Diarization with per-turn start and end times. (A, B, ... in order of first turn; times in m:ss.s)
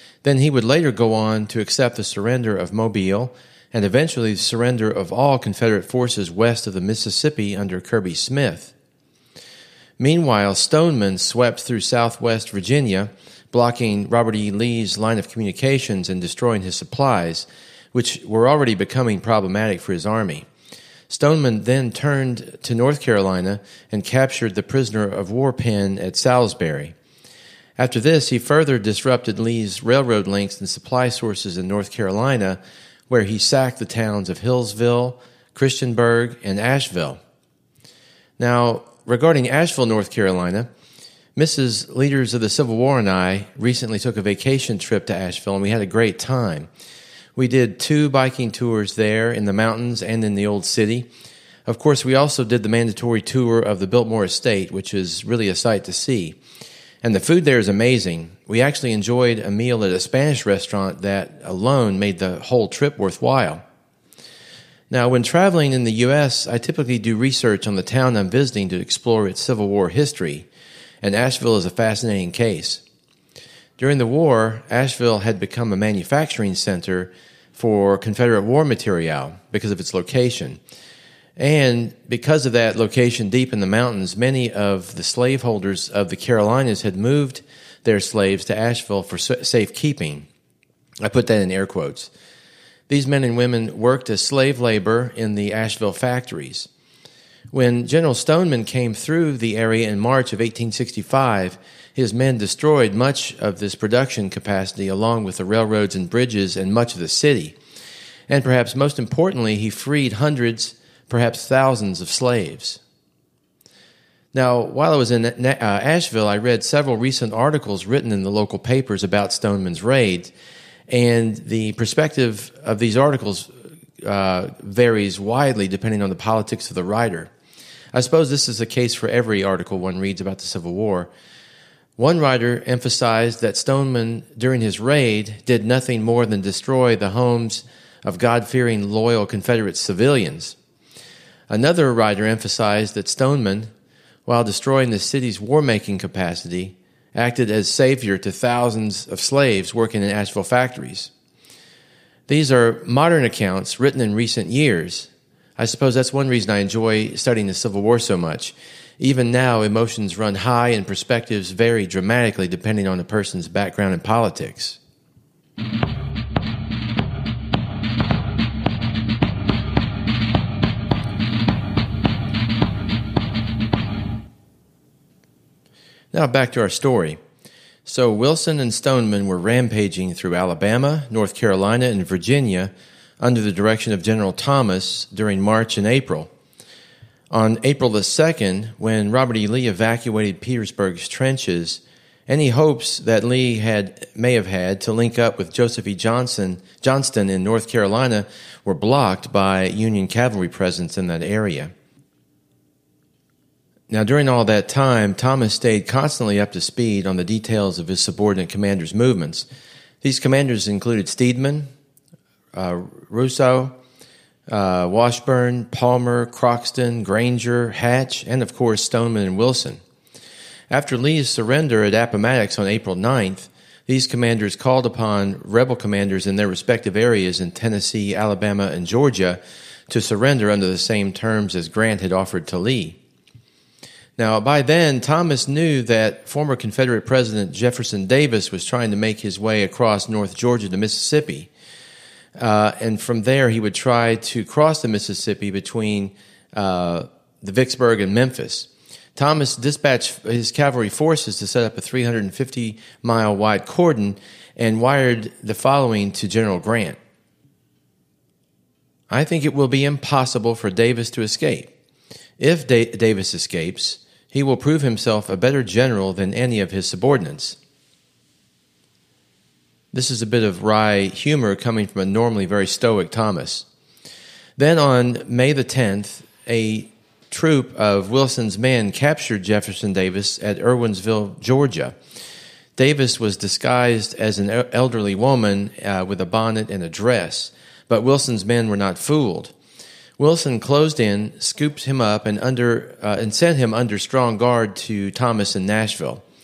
0:00.2-0:08.7 A
0:10.0-0:20.5 A
0:21.1-0:27.0 A
0:27.8-0:37.2 A
0:38.4-0:40.7 A
0:41.4-0:46.7 A
0:47.4-0:51.1 A
0:51.7-0:56.4 A
0:57.0-1:03.6 A
1:04.9-1:10.5 A
1:11.0-1:12.8 A
1:13.8-1:20.6 A
1:21.4-1:30.3 A
1:31.0-1:32.1 A
1:32.9-1:36.7 A
1:37.5-1:47.6 A
1:48.3-1:52.8 A
1:54.3-2:00.3 A
2:00.9-2:07.3 A
2:07.9-2:11.1 A
2:12.0-2:20.6 A
2:21.5-2:23.7 A
2:24.3-2:31.1 A
2:32.3-2:44.8 A
2:56.1-2:57.2 A
2:57.8-3:06.3 A
3:07.3-3:21.7 A
3:23.9-3:29.5 A
3:30.0-3:31.7 A
3:32.5-3:33.8 A
3:34.5-3:39.8 A
3:40.7-3:53.0 A
3:54.2-4:01.5 A
4:02.4-4:17.0 A
4:19.1-4:21.7 A
4:22.4-4:27.6 A
4:29.9-4:33.7 A
4:34.6-4:42.0 A
4:42.8-4:49.5 A
4:50.2-4:56.2 A